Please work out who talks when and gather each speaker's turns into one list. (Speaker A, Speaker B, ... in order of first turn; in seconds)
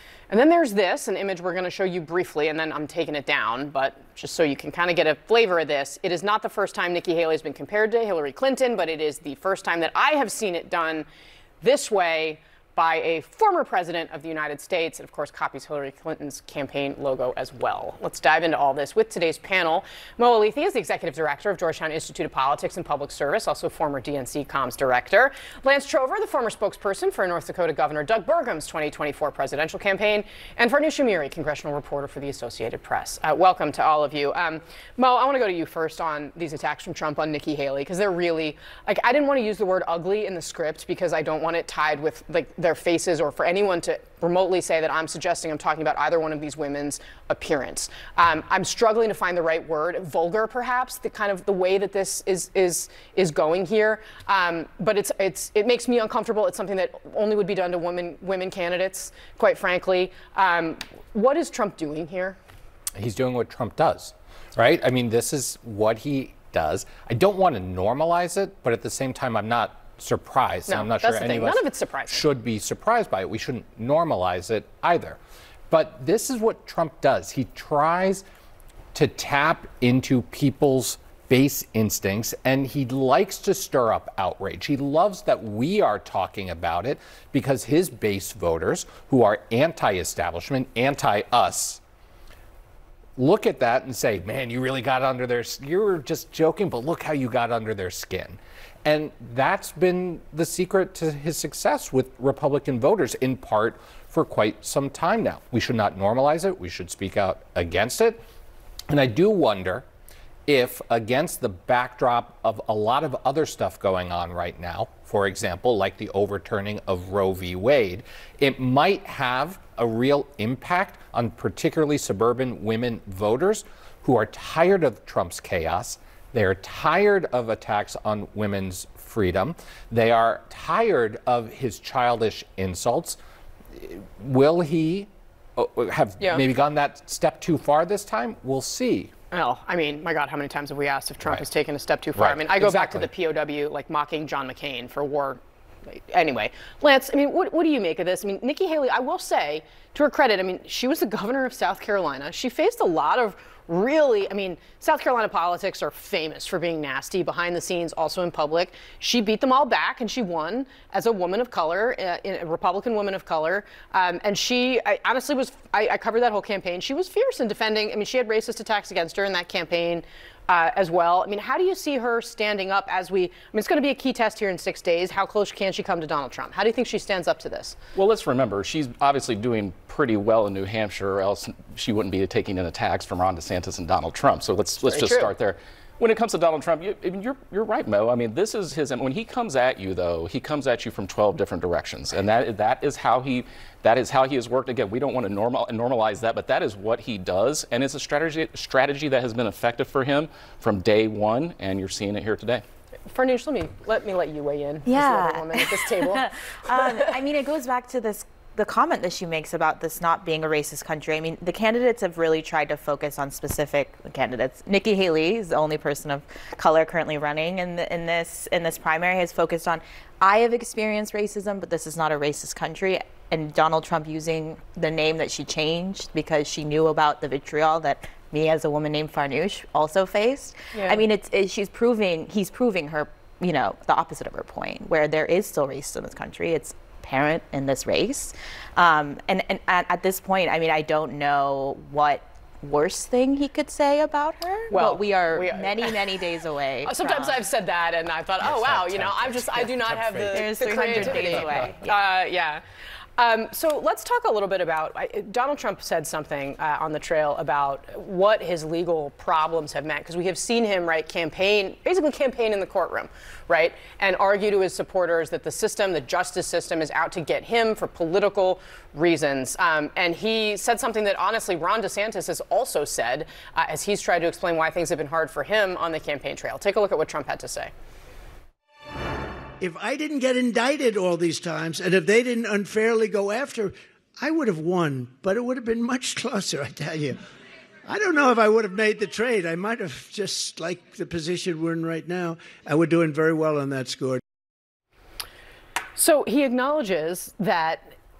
Speaker A: 0.3-11.1, 11.6-62.4, 70.7-72.2, 139.3-177.8, 184.8-185.3, 203.1-206.9, 230.7-231.0, 244.7-246.0, 246.8-252.6, 253.2-277.7, 295.9-297.9
Speaker B: 63.0-75.2, 75.7-78.2, 78.9-91.8, 93.2-108.2, 108.9-109.8, 110.5-133.2, 133.7-139.1, 142.2-143.1
Speaker C: 177.9-202.6
Speaker D: 204.8-247.4, 250.2-252.1
Speaker E: 279.6-287.2, 287.8-294.2